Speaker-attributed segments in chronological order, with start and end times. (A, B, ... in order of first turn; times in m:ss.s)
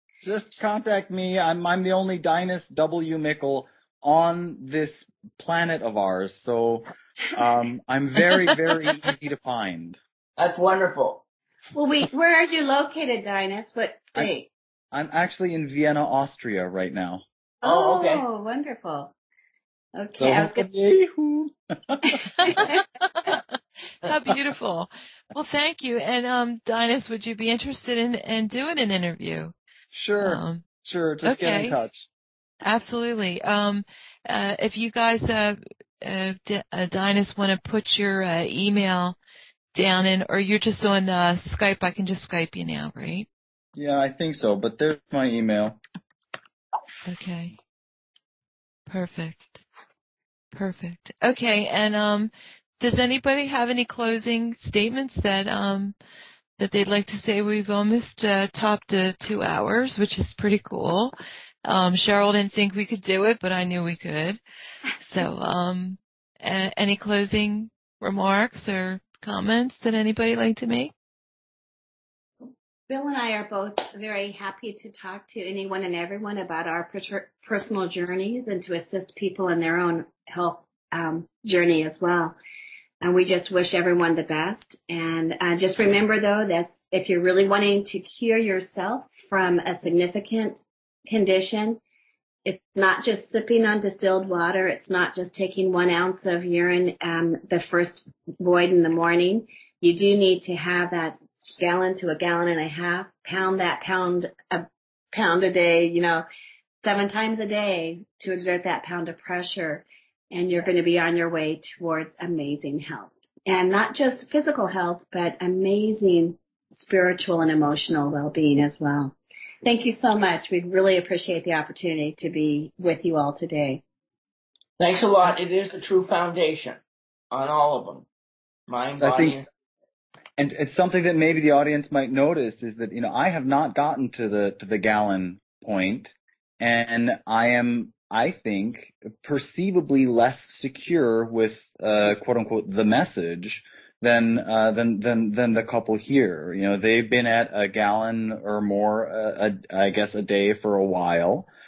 0:00.2-0:10.0 A
0:10.4-0:11.2 B
0:11.7-0:14.5 C
0:14.9-0:17.2 A
0:17.6-0:19.1 C
0:17.6-0:18.2 B
0:20.0-0:20.7 C
0:20.2-0:22.6 A
0:22.1-0:22.8 C
0:22.4-0:23.4 D
0:24.0-0:29.5 D
0:29.9-0:32.1 A
0:30.2-0:30.6 D
0:31.2-0:31.8 D
0:32.6-0:39.2 D
0:39.7-0:43.3 D
0:43.8-0:45.8 A
0:47.0-0:47.5 D
0:48.9-0:49.6 D
0:50.5-0:55.9 D
0:56.6-1:04.4 D
1:05.0-1:10.9 D
1:12.9-1:22.4 C
1:23.0-1:31.8 C
1:32.4-1:46.2 C
1:46.8-2:03.8 C
2:04.8-2:06.8 B
2:07.3-2:08.0 B
2:08.7-2:09.4 B
2:09.0-2:09.4 A
2:10.4-2:31.4 A